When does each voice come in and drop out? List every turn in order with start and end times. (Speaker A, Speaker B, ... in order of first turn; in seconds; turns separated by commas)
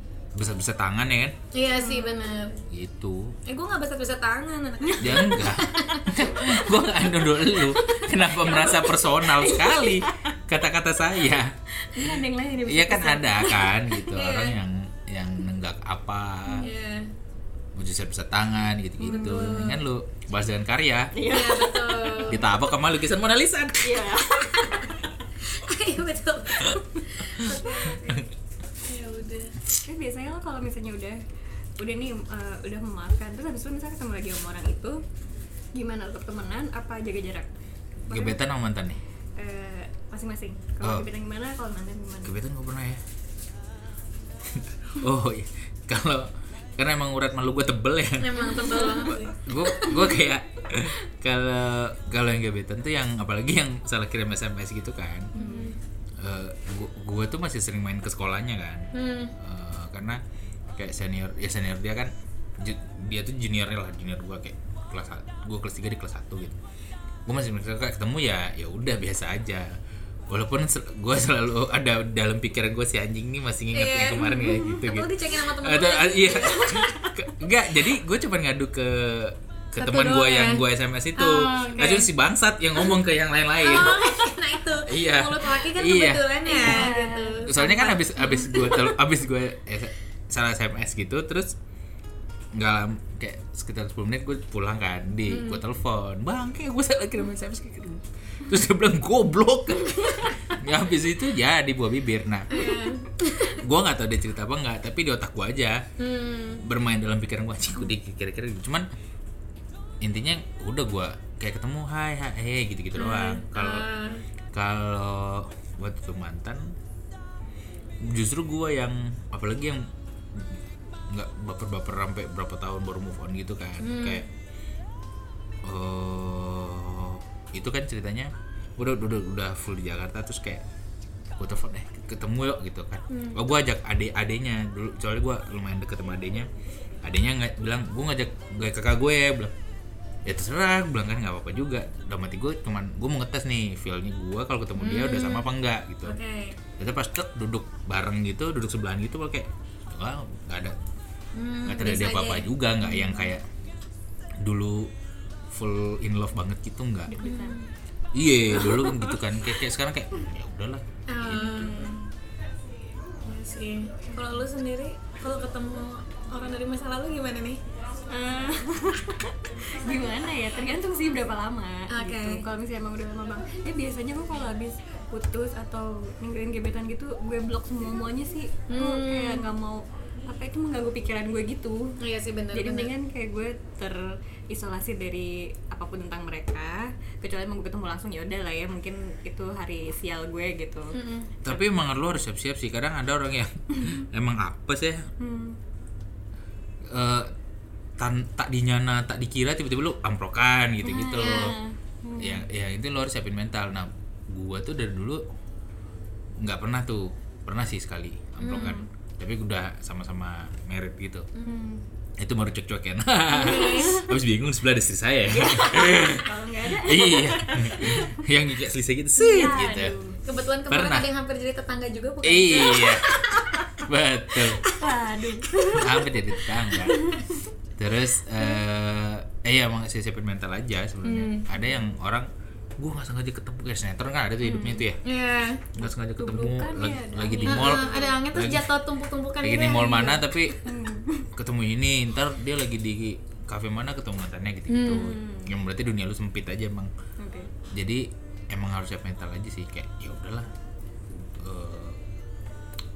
Speaker A: 0.3-1.4, Speaker B: 1.5-2.6, Speaker C: 1.8-2.3, Speaker A: 2.7-3.3, Speaker B: 3.5-6.1, Speaker C: 4.8-5.2, Speaker A: 5.0-12.2, Speaker C: 8.0-10.3, Speaker C: 11.8-14.1, Speaker A: 12.7-16.7, Speaker B: 14.1-14.6, Speaker B: 16.6-17.1, Speaker A: 17.8-21.1, Speaker B: 19.0-19.8, Speaker C: 19.0-19.5, Speaker C: 21.1-22.4, Speaker B: 21.2-22.4, Speaker A: 22.3-24.1, Speaker C: 23.8-25.0, Speaker B: 25.4-28.3, Speaker C: 27.4-28.2, Speaker B: 28.8-29.6, Speaker C: 29.9-31.2, Speaker C: 31.8-35.0, Speaker C: 35.7-37.5, Speaker A: 38.0-39.0, Speaker C: 38.1-38.4, Speaker C: 39.4-42.4, Speaker A: 42.2-43.0, Speaker A: 44.5-55.3, Speaker B: 48.2-50.1, Speaker C: 48.4-49.2, Speaker C: 55.4-55.8, Speaker B: 55.4-55.8, Speaker A: 56.2-60.2, Speaker B: 58.9-59.3, Speaker A: 60.8-66.6, Speaker A: 67.3-69.7, Speaker A: 70.3-84.1, Speaker B: 73.7-76.9, Speaker C: 74.2-74.8, Speaker C: 76.4-77.3, Speaker B: 79.8-80.6, Speaker B: 81.2-82.1, Speaker B: 83.6-89.0, Speaker A: 84.9-91.5, Speaker C: 86.4-87.9, Speaker A: 92.5-102.7, Speaker B: 95.3-95.6, Speaker B: 102.5-103.6, Speaker A: 103.5-105.9, Speaker B: 106.0-106.6, Speaker A: 106.6-108.9, Speaker A: 110.0-113.8, Speaker B: 113.0-114.2, Speaker A: 114.5-116.7, Speaker A: 118.0-120.5, Speaker A: 121.1-124.2, Speaker B: 123.8-124.3, Speaker A: 125.6-130.6, Speaker A: 131.4-136.5, Speaker B: 133.1-133.4, Speaker A: 137.0-139.5, Speaker A: 140.2-146.2, Speaker B: 144.8-145.5, Speaker B: 146.0-146.6, Speaker A: 146.8-150.8, Speaker B: 151.3-153.3, Speaker A: 151.7-153.4, Speaker A: 154.4-154.9, Speaker A: 155.5-157.1, Speaker C: 157.1-157.6, Speaker B: 157.2-157.7, Speaker A: 158.1-161.9, Speaker B: 161.1-162.0, Speaker B: 163.2-167.6, Speaker C: 168.1-182.0, Speaker B: 171.9-172.4, Speaker B: 178.7-179.5, Speaker B: 182.0-182.9, Speaker C: 182.5-190.9, Speaker B: 190.9-191.3, Speaker A: 191.4-195.1, Speaker C: 195.2-195.6, Speaker A: 196.9-197.3, Speaker A: 198.0-201.6, Speaker C: 200.8-202.5, Speaker B: 200.9-201.6, Speaker A: 202.2-205.2, Speaker A: 206.4-211.3, Speaker C: 208.4-208.9, Speaker B: 208.4-208.7, Speaker B: 211.4-211.8, Speaker A: 212.2-219.9, Speaker B: 213.3-214.1, Speaker C: 213.4-213.9, Speaker C: 215.3-218.2, Speaker C: 219.2-220.2, Speaker B: 220.2-223.8, Speaker A: 220.7-221.1, Speaker A: 222.2-224.6, Speaker C: 224.7-226.1, Speaker A: 225.7-227.1, Speaker C: 226.7-227.4, Speaker A: 227.8-235.0, Speaker B: 231.0-231.5, Speaker C: 234.4-234.8, Speaker B: 235.0-235.7, Speaker A: 235.7-238.7, Speaker C: 236.2-238.2, Speaker B: 237.3-240.3, Speaker A: 239.4-240.7, Speaker C: 240.6-241.3, Speaker A: 241.4-246.9, Speaker B: 244.7-245.2, Speaker C: 244.8-245.5, Speaker C: 247.2-247.5, Speaker A: 247.7-250.5, Speaker A: 251.1-252.0